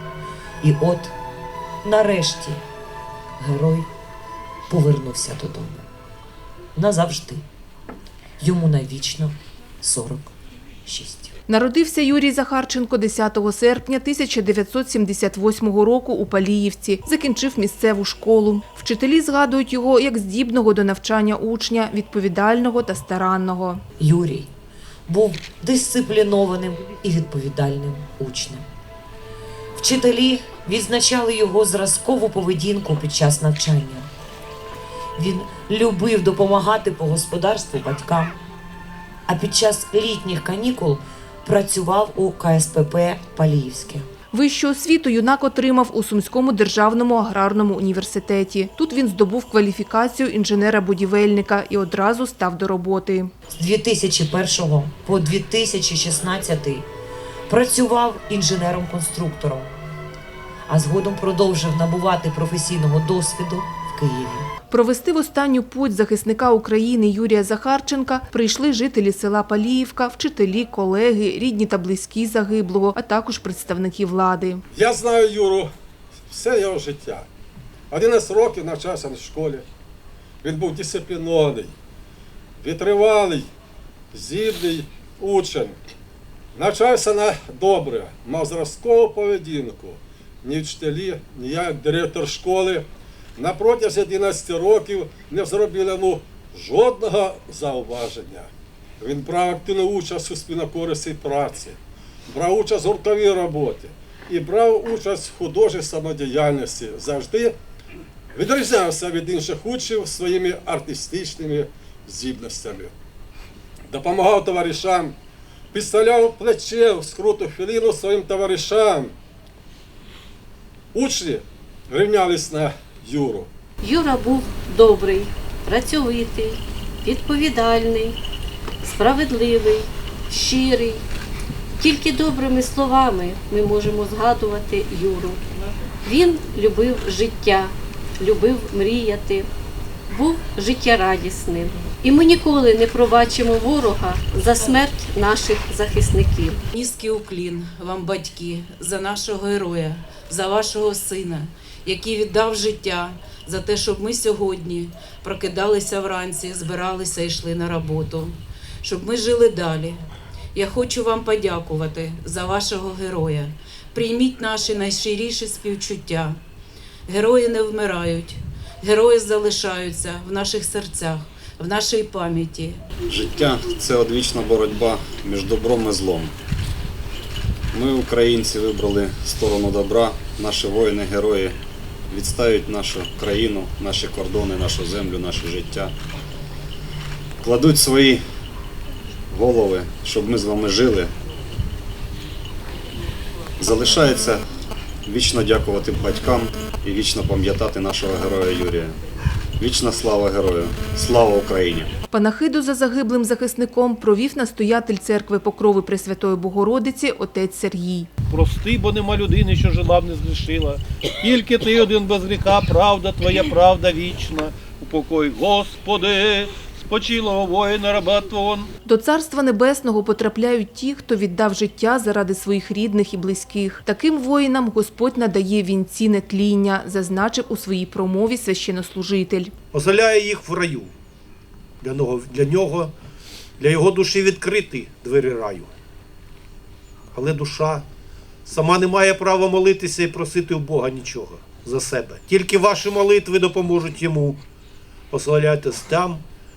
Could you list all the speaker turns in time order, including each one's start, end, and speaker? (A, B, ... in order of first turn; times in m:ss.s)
0:00.6-0:01.1 A
0:01.8-0:02.6 A
0:03.4-0:03.9 A
0:04.7-0:05.9 A
0:06.8-0:07.4 A
0:08.4-0:10.4 A
0:10.9-0:11.3 A
0:11.5-0:23.8 B
0:24.0-0:24.5 A
0:25.1-0:28.7 A
0:29.8-0:34.1 A
0:35.2-0:38.4 A
0:39.3-0:44.1 A
0:44.3-0:53.3 B
0:53.5-0:56.9 A
0:57.5-0:59.7 A
1:00.7-1:04.5 A
1:04.7-1:14.6 B
1:14.7-1:15.7 C
1:16.3-1:17.3 C
1:17.9-1:19.6 C
1:20.4-1:21.8 C
1:22.6-1:23.5 C
1:24.1-1:25.8 C
1:26.5-1:47.6 C
1:48.3-1:53.0 C
1:53.9-1:55.2 C
1:55.7-1:59.1 C
2:00.9-2:03.5 C
2:03.8-2:08.2 D
2:08.8-2:11.0 D
2:11.8-2:15.4 D
2:16.0-2:19.5 D
2:20.1-2:26.6 D
2:26.7-2:40.0 E
2:40.6-2:46.4 E
2:47.1-2:52.8 E
2:53.1-2:56.3 F
2:57.7-3:01.6 F
3:02.1-3:05.9 F
3:07.4-3:08.2 F
3:09.3-3:11.1 F
3:13.6-3:14.4 F
3:15.1-3:19.0 F
3:19.6-3:21.9 F
3:22.1-3:28.1 B
3:28.3-3:38.7 G
3:38.9-3:49.5 B
3:49.7-3:50.9 H
3:51.8-3:52.9 H
3:53.6-3:55.7 H
3:57.1-3:57.9 H
3:58.5-4:04.4 H
4:05.1-4:06.2 H